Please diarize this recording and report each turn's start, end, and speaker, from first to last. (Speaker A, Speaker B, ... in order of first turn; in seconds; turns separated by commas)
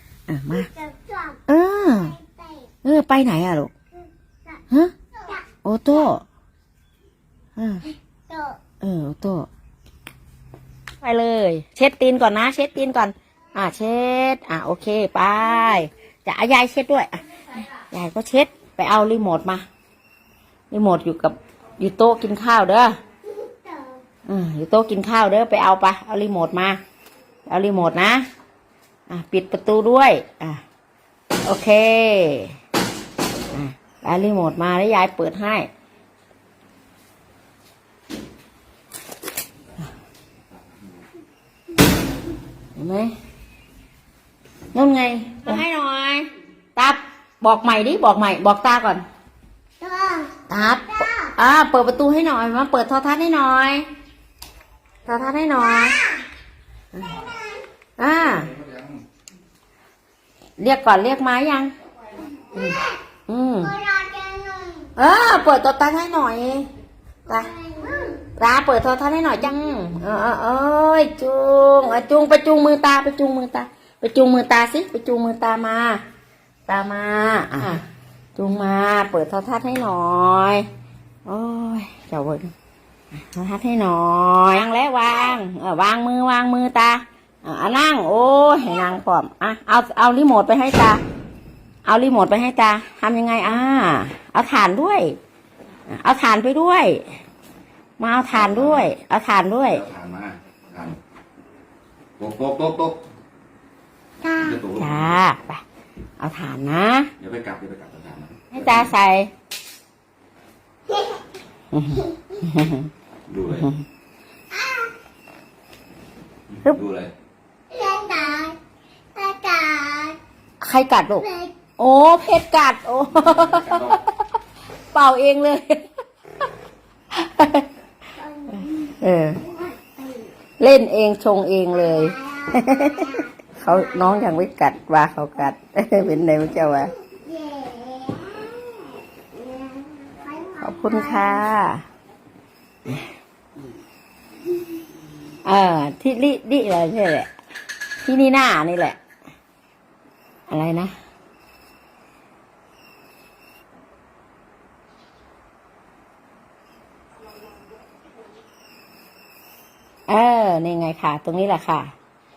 Speaker A: 0.3-0.7, Speaker B: 0.6-1.4, Speaker A: 1.5-2.2, Speaker B: 1.9-2.6, Speaker A: 2.8-3.7, Speaker B: 5.2-5.5, Speaker A: 5.6-6.2, Speaker A: 7.6-7.9, Speaker B: 8.3-8.6, Speaker A: 8.8-9.5, Speaker A: 11.0-19.6, Speaker A: 20.7-23.0, Speaker B: 23.4-24.0, Speaker A: 24.3-26.8, Speaker A: 27.5-28.3, Speaker A: 29.1-30.6, Speaker A: 31.4-32.5, Speaker A: 33.5-35.7, Speaker A: 42.8-43.1, Speaker A: 44.7-49.0, Speaker B: 49.8-50.4, Speaker A: 50.5-53.9, Speaker B: 51.0-51.3, Speaker A: 55.1-56.0, Speaker B: 55.8-56.2, Speaker B: 57.2-57.6, Speaker A: 58.0-58.5, Speaker A: 60.6-61.7, Speaker A: 62.5-63.8, Speaker B: 62.6-62.9, Speaker B: 63.6-64.9, Speaker A: 65.0-66.7, Speaker B: 67.3-68.3, Speaker A: 68.3-76.0, Speaker A: 76.7-77.8, Speaker A: 78.4-80.7, Speaker A: 81.3-82.5, Speaker A: 83.2-91.0, Speaker A: 91.8-95.2, Speaker A: 95.9-97.0, Speaker A: 98.0-99.8, Speaker C: 98.4-98.9, Speaker C: 99.7-101.0, Speaker C: 102.2-103.0, Speaker B: 104.2-104.6, Speaker C: 104.4-105.2, Speaker A: 104.7-105.6, Speaker A: 106.2-107.1, Speaker C: 107.2-108.9, Speaker A: 108.5-109.3, Speaker A: 111.7-112.9, Speaker C: 113.3-113.7, Speaker A: 113.5-113.8, Speaker B: 114.5-114.9, Speaker C: 116.5-117.1, Speaker B: 117.7-118.6, Speaker B: 119.2-120.2, Speaker A: 120.6-124.1, Speaker B: 121.2-121.5, Speaker C: 123.2-124.0, Speaker A: 124.9-125.8, Speaker A: 127.1-127.7, Speaker B: 128.2-130.3, Speaker A: 128.9-129.4, Speaker A: 130.6-136.9, Speaker B: 131.9-133.3, Speaker B: 137.2-141.4, Speaker A: 140.6-141.8, Speaker A: 145.4-147.3, Speaker A: 148.0-149.0, Speaker A: 150.5-150.9, Speaker A: 160.1-161.9